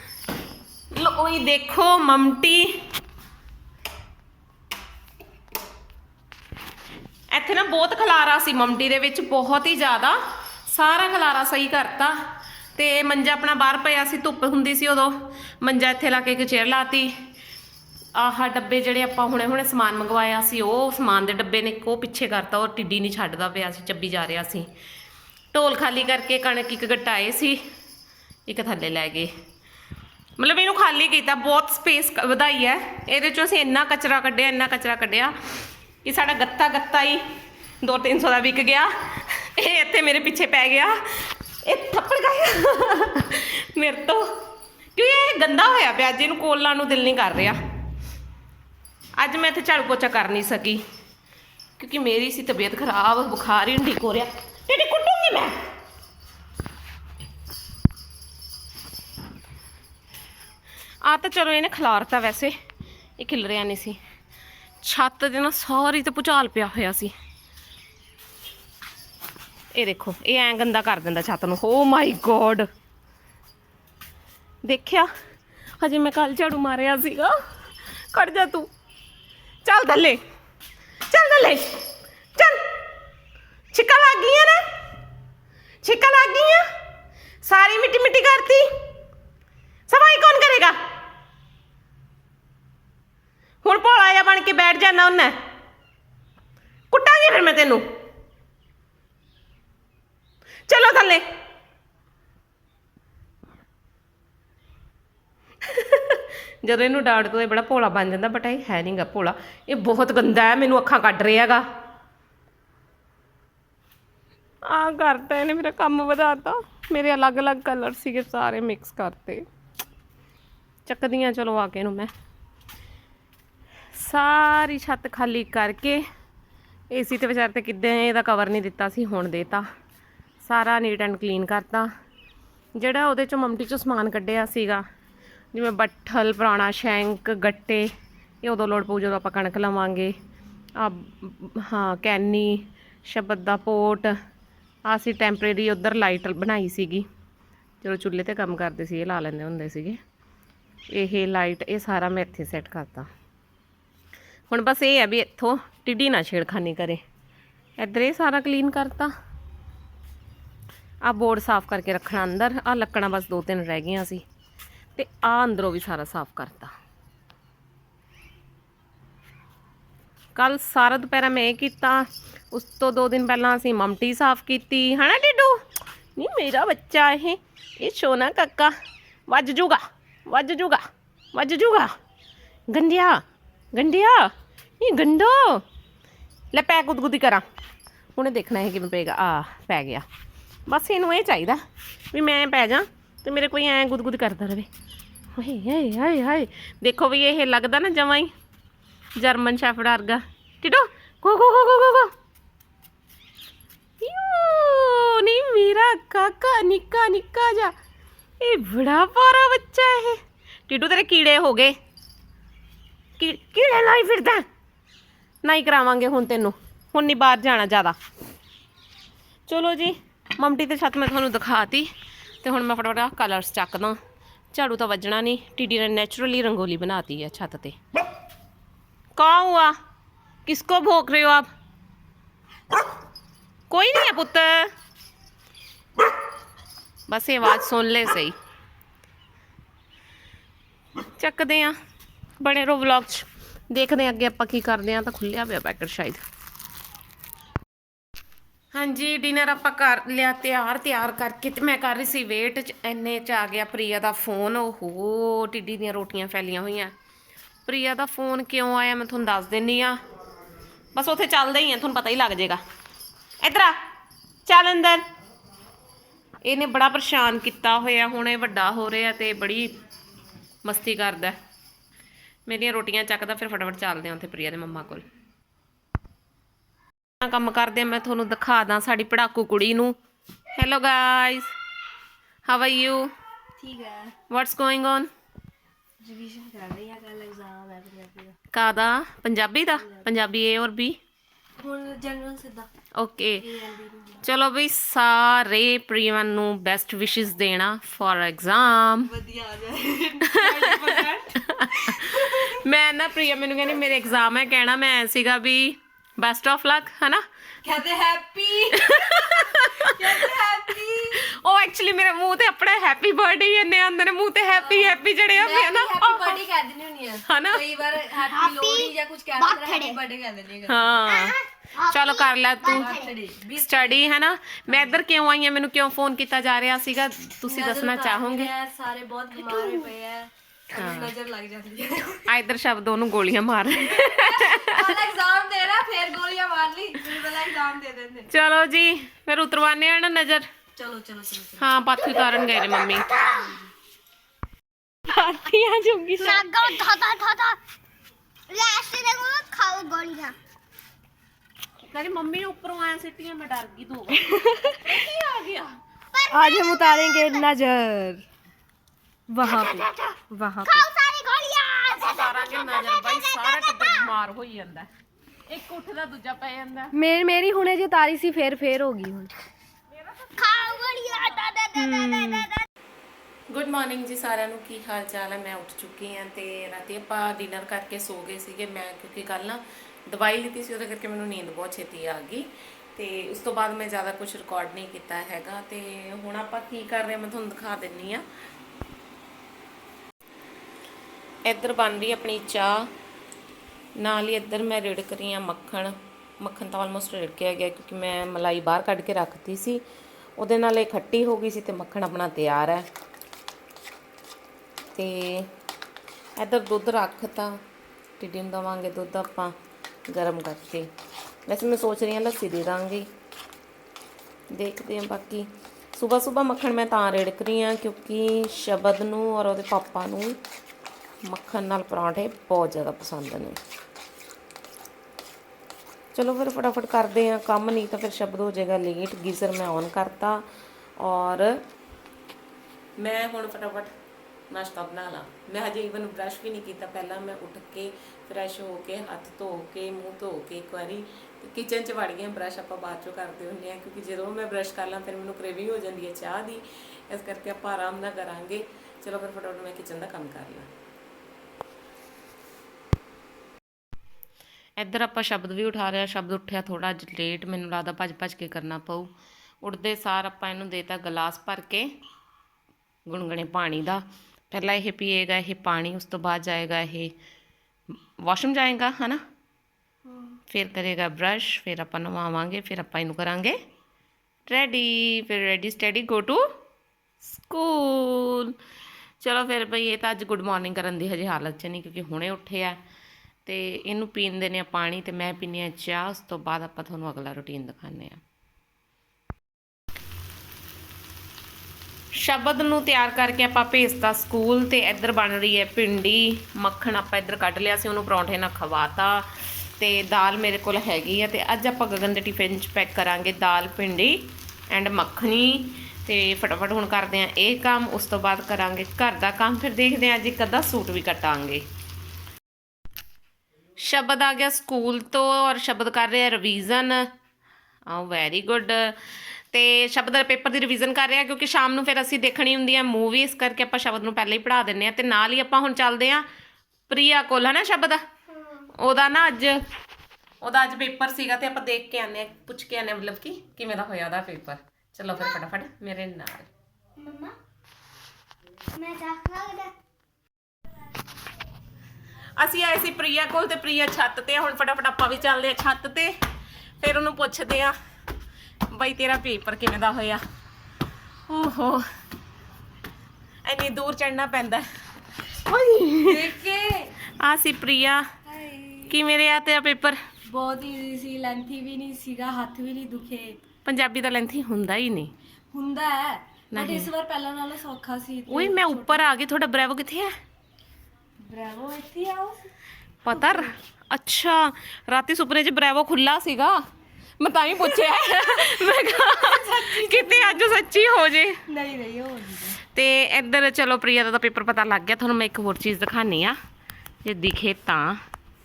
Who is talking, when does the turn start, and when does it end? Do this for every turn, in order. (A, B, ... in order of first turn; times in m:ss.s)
0:00.9-0:02.8 A
0:07.3-0:12.2 A
0:12.8-0:17.1 A
0:18.2-0:24.7 A
0:25.5-0:27.6 A
0:28.5-0:29.3 A
0:30.4-0:35.3 A
0:36.0-0:37.2 A
0:37.8-0:44.3 A
0:45.0-0:47.6 A
0:49.2-0:50.8 A
0:51.8-0:55.6 A
1:01.0-1:02.6 A
1:03.2-1:04.0 A
1:04.8-1:07.1 A
1:09.8-1:12.7 A
1:14.6-1:15.1 A
1:15.8-1:17.3 A
1:18.1-1:18.7 A
1:19.6-1:20.2 A
1:21.1-1:21.8 A
1:22.4-1:22.6 A
1:23.7-1:24.6 A
1:25.8-1:26.6 A
1:27.4-1:28.7 A
1:29.9-1:30.8 A
1:33.6-1:35.4 A
1:36.9-1:37.8 A
1:40.7-1:41.2 A
1:45.6-1:51.6 A
1:54.7-1:59.4 A
2:00.9-2:02.1 A
2:04.0-2:06.0 A
2:06.9-2:09.7 A
2:10.4-2:11.9 A
2:12.8-2:14.8 A
2:15.5-2:17.9 A
2:18.4-2:20.1 A
2:20.8-2:24.2 A
2:24.9-2:27.1 A
2:27.8-2:30.0 A
2:30.9-2:33.1 A
2:34.5-2:37.0 A
2:37.8-2:39.1 A
2:41.0-2:44.2 A
2:45.0-2:46.7 A
2:50.4-2:55.6 A
2:56.2-2:58.7 A
2:59.3-3:01.9 A
3:02.7-3:03.2 A
3:03.7-3:05.6 A
3:06.5-3:07.4 A
3:08.2-3:10.1 A
3:10.7-3:11.6 A
3:12.1-3:14.7 A
3:15.4-3:18.3 A
3:19.2-3:22.1 A
3:24.0-3:27.7 A
3:28.4-3:31.8 A
3:33.2-3:34.4 A
3:35.4-3:38.0 A
3:39.5-3:41.9 A
3:42.4-3:44.0 A
3:44.5-3:47.8 A
3:49.2-3:49.8 A
3:50.5-3:51.5 A
3:53.7-3:54.7 A
3:57.1-3:58.4 A
4:01.2-4:01.8 A
4:02.4-4:06.2 A
4:08.7-4:16.9 A
4:17.7-4:20.0 A
4:21.0-4:22.6 A
4:23.4-4:23.8 A
4:24.5-4:25.0 A
4:26.4-4:29.7 A
4:30.6-4:31.4 A
4:32.5-4:35.0 A
4:37.2-4:40.0 A
4:40.6-4:41.5 A
4:42.5-4:43.1 A
4:43.6-4:44.1 B
4:44.3-4:45.1 A
4:46.0-4:48.4 B
4:48.5-4:51.0 A
4:49.8-4:50.1 B
4:51.6-4:52.7 B
4:53.0-4:53.4 A
4:53.4-4:54.3 B
4:54.2-4:59.1 A
4:59.1-5:02.6 B
5:00.3-5:07.2 A
5:07.6-5:11.2 B
5:08.8-5:10.4 A
5:11.1-5:16.4 A
5:14.5-5:21.1 B
5:17.3-5:17.6 A
5:18.3-5:20.0 C
5:20.7-5:21.4 A
5:21.1-5:23.1 C
5:21.9-5:22.9 A
5:22.7-5:24.0 B
5:23.6-5:28.5 A
5:24.7-5:25.0 B
5:27.5-5:32.3 B
5:29.5-5:29.8 C
5:30.8-5:31.1 A
5:32.3-5:35.0 A
5:33.8-5:38.3 B
5:38.3-5:40.5 A
5:40.8-5:41.7 B
5:41.6-5:43.1 A
5:42.0-5:43.6 C
5:45.1-5:46.5 A
5:46.2-5:47.6 C
5:48.5-5:50.4 C
5:51.8-5:55.8 A
5:54.2-5:54.9 B
5:56.1-5:57.5 C
5:56.3-5:58.2 B
5:59.3-6:00.8 B
5:59.5-5:59.9 C
6:00.6-6:04.1 C
6:01.9-6:04.9 A
6:05.5-6:06.9 A
6:06.9-6:09.3 B
6:09.9-6:12.4 A
6:10.4-6:12.6 C
6:13.5-6:22.4 A
6:23.0-6:28.2 A
6:31.4-6:32.9 A
6:34.0-6:39.8 A
6:40.4-6:42.9 A
6:45.0-6:45.5 A
6:46.4-6:47.6 A
6:48.2-6:49.6 A
6:50.1-6:50.9 A
6:51.5-6:53.1 A
6:54.5-7:00.4 A
7:01.3-7:03.6 A
7:06.1-7:10.4 A
7:11.0-7:11.5 A
7:13.0-7:13.9 A
7:14.5-7:30.7 A
7:34.8-7:41.9 A
7:43.1-7:47.1 A
7:48.2-7:49.2 A
7:50.5-7:53.6 A
7:54.5-7:56.5 A
7:57.2-7:58.6 A
7:59.2-8:02.8 A
8:03.5-8:08.2 A
8:12.2-8:19.2 A
8:19.8-8:31.6 A
8:33.8-8:37.1 A
8:37.9-8:46.3 A
8:46.9-8:48.0 A
8:48.7-8:49.6 A
8:50.4-8:56.5 A
8:57.0-8:57.4 C
8:58.7-8:59.7 C
9:02.4-9:06.1 A
9:06.8-9:07.8 A
9:08.7-9:10.2 A
9:11.3-9:11.8 A
9:13.4-9:14.6 A
9:15.3-9:16.3 A
9:16.0-9:16.9 B
9:17.2-9:18.0 A
9:18.3-9:19.0 B
9:18.9-9:20.0 A
9:20.3-9:23.4 B
9:23.6-9:25.1 A
9:25.5-9:29.0 B
9:26.5-9:26.9 A
9:28.3-9:30.1 A
9:31.2-9:32.5 B
9:33.0-9:36.6 A
9:33.1-9:33.5 B
9:37.2-9:41.4 A
9:38.4-9:40.7 B
9:41.5-9:42.6 B
9:42.7-9:46.4 A
9:47.0-9:48.0 A